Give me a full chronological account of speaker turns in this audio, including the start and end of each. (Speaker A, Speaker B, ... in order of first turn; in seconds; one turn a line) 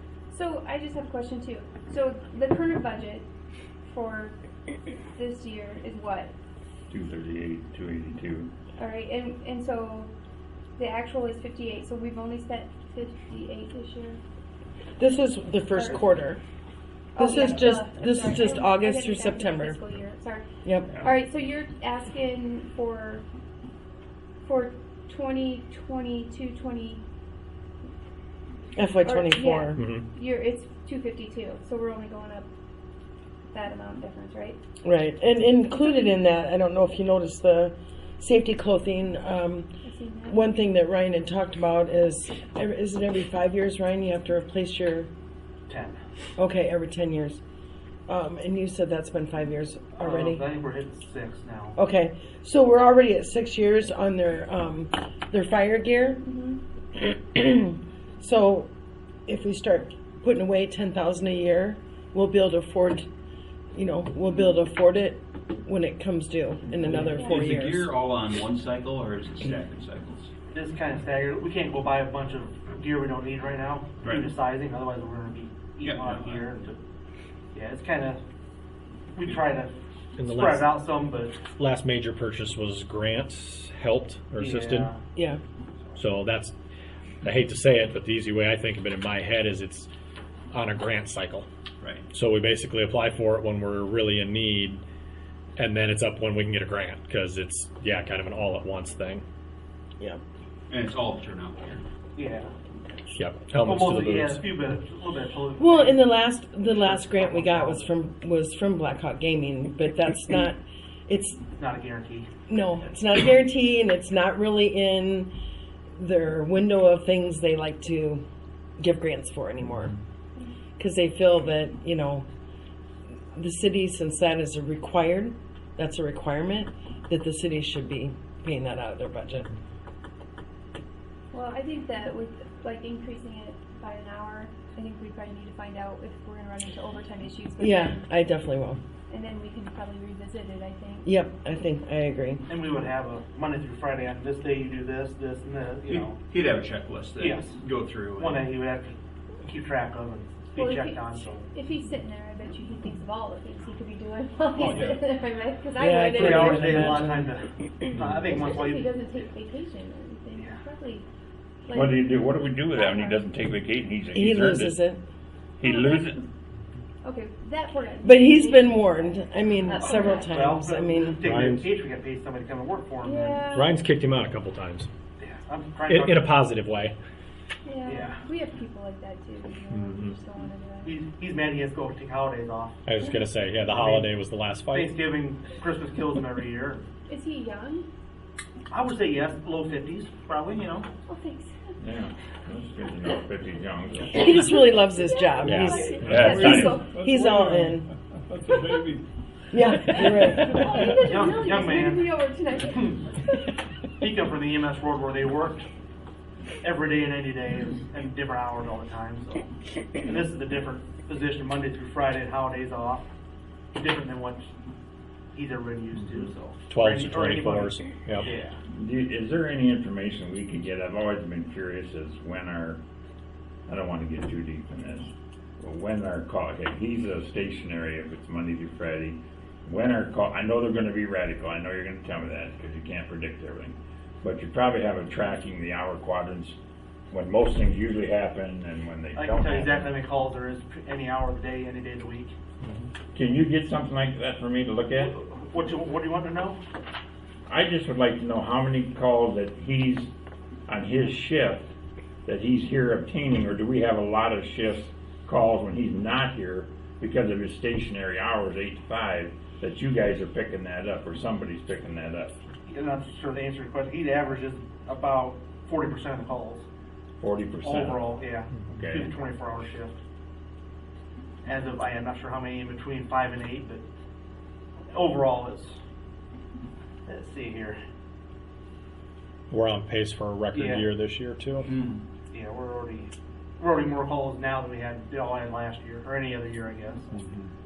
Speaker A: 0.3-3.2
Speaker A: 3.9-4.3
Speaker A: 5.1-6.3
Speaker B: 6.9-8.5
Speaker A: 8.8-10.1
Speaker A: 10.8-14.2
Speaker C: 15.0-16.4
Speaker A: 15.7-16.1
Speaker A: 17.1-20.4
Speaker C: 17.2-19.8
Speaker C: 20.6-20.9
Speaker A: 21.0-23.2
Speaker A: 24.4-27.0
Speaker C: 28.8-29.8
Speaker A: 29.0-32.5
Speaker D: 29.8-30.1
Speaker A: 33.5-34.6
Speaker C: 34.8-39.7
Speaker A: 39.8-40.4
Speaker C: 40.3-45.1
Speaker E: 45.7-46.0
Speaker C: 46.4-47.4
Speaker C: 48.1-50.4
Speaker E: 49.9-51.8
Speaker C: 51.8-56.2
Speaker A: 56.2-56.6
Speaker C: 57.0-58.7
Speaker C: 59.2-63.1
Speaker C: 63.7-67.9
Speaker F: 66.8-70.3
Speaker A: 66.9-67.4
Speaker E: 70.5-76.8
Speaker F: 74.0-74.3
Speaker F: 75.8-76.5
Speaker E: 77.5-78.2
Speaker E: 79.1-81.4
Speaker D: 80.2-80.7
Speaker D: 81.6-84.9
Speaker E: 84.4-85.0
Speaker D: 86.0-86.5
Speaker D: 87.2-89.9
Speaker D: 90.5-91.5
Speaker D: 92.1-94.8
Speaker D: 95.6-99.2
Speaker F: 100.7-101.8
Speaker E: 102.1-102.5
Speaker D: 103.1-104.4
Speaker E: 103.6-106.1
Speaker C: 105.6-111.4
Speaker E: 106.8-107.9
Speaker E: 111.5-112.3
Speaker C: 112.5-115.3
Speaker C: 116.0-118.2
Speaker C: 118.8-119.9
Speaker C: 120.8-122.2
Speaker C: 123.3-129.5
Speaker A: 131.3-138.1
Speaker C: 137.6-138.8
Speaker A: 139.1-141.1
Speaker C: 141.0-142.4
Speaker E: 142.5-146.2
Speaker F: 145.8-148.5
Speaker E: 147.2-147.6
Speaker E: 148.2-151.5
Speaker A: 150.5-161.1
Speaker F: 154.5-155.1
Speaker C: 155.8-157.2
Speaker E: 156.2-158.8
Speaker A: 161.6-163.2
Speaker B: 161.7-164.8
Speaker C: 164.1-165.0
Speaker B: 165.6-166.2
Speaker A: 165.6-166.2
Speaker A: 167.0-170.3
Speaker C: 168.0-171.2
Speaker E: 169.8-173.4
Speaker D: 171.2-171.6
Speaker A: 173.0-173.7
Speaker D: 173.5-174.9
Speaker E: 175.2-176.3
Speaker D: 175.9-176.9
Speaker A: 177.7-181.0
Speaker E: 177.9-178.2
Speaker D: 179.7-180.1
Speaker E: 180.8-182.8
Speaker D: 182.8-185.0
Speaker E: 183.7-184.1
Speaker E: 184.7-186.8
Speaker A: 187.1-187.9
Speaker E: 188.7-190.9
Speaker A: 191.1-191.7
Speaker B: 191.8-194.3
Speaker C: 194.1-197.9
Speaker A: 194.9-197.4
Speaker D: 195.4-195.8
Speaker B: 196.1-196.8
Speaker G: 196.1-197.8
Speaker G: 198.3-199.0
Speaker C: 199.5-200.8
Speaker A: 199.9-203.4
Speaker E: 201.0-202.2
Speaker E: 204.0-205.7
Speaker E: 206.6-209.4
Speaker E: 210.0-213.1
Speaker E: 213.7-214.5
Speaker E: 215.3-218.6
Speaker D: 216.7-218.3
Speaker B: 218.7-222.8
Speaker B: 223.7-236.6
Speaker B: 237.1-239.9
Speaker E: 239.2-242.3
Speaker B: 243.1-245.1
Speaker E: 245.0-246.6
Speaker B: 247.5-250.1
Speaker B: 250.7-251.7
Speaker B: 252.2-262.3
Speaker E: 262.6-266.6
Speaker B: 267.2-269.1
Speaker E: 267.6-269.9
Speaker E: 271.4-273.8
Speaker E: 274.9-275.8
Speaker E: 277.1-277.8
Speaker D: 279.5-281.7
Speaker E: 280.5-280.9
Speaker F: 281.6-282.0
Speaker E: 282.3-287.1
Speaker F: 287.1-287.5